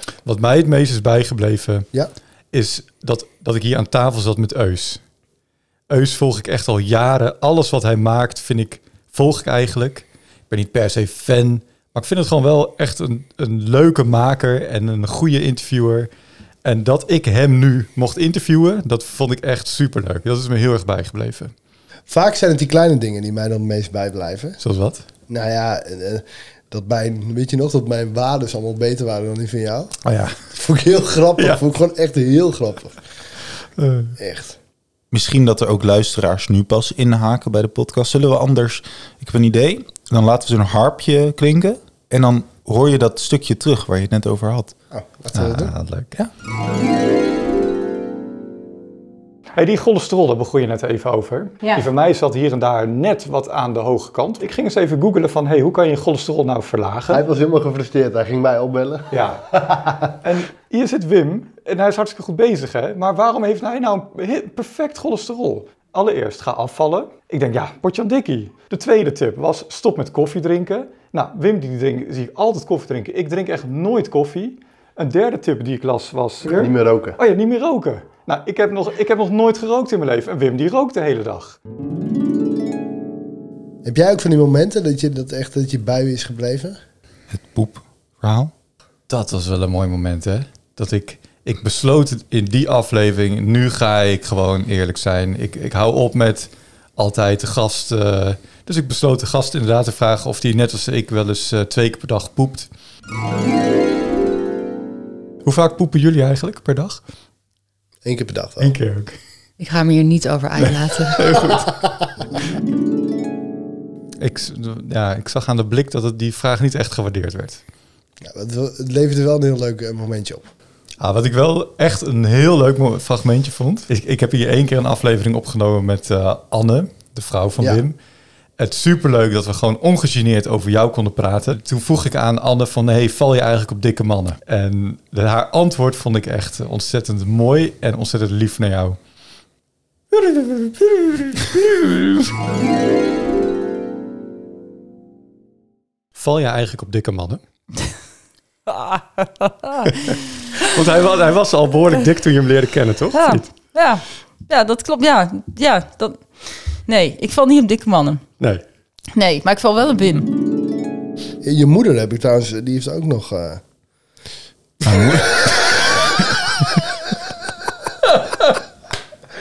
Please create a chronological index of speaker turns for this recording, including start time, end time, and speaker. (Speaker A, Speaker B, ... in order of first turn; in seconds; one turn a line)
Speaker A: 0.2-1.9
Speaker A: 2.5-5.0
Speaker A: 5.9-16.1
Speaker A: 16.6-21.5
Speaker B: 22.1-24.6
Speaker A: 24.6-25.0
Speaker B: 25.3-29.9
Speaker A: 30.0-30.4
Speaker B: 30.5-33.0
Speaker A: 33.8-34.1
Speaker B: 34.2-34.6
Speaker C: 35.1-44.7
Speaker B: 44.9-45.7
Speaker A: 45.3-46.1
Speaker A: 49.5-57.2
Speaker B: 57.1-60.1
Speaker A: 59.1-81.6
Speaker B: 76.4-77.2
Speaker B: 83.8-86.8
Speaker C: 87.3-88.5
Speaker A: 89.1-102.7
Speaker A: 105.4-107.0
Speaker B: 108.0-108.8
Speaker A: 108.6-109.2
Speaker D: 109.6-111.6
Speaker A: 110.6-111.7
Speaker A: 114.2-117.6
Speaker B: 118.2-120.5
Speaker A: 121.0-128.0
Speaker A: 128.6-139.0
Speaker A: 140.1-142.3
Speaker A: 146.2-147.4
Speaker E: 148.7-149.9
Speaker A: 149.9-153.5
Speaker E: 153.1-156.3
Speaker E: 156.8-158.2
Speaker E: 159.1-160.3
Speaker B: 161.4-163.6
Speaker A: 164.8-165.2
Speaker A: 168.1-168.5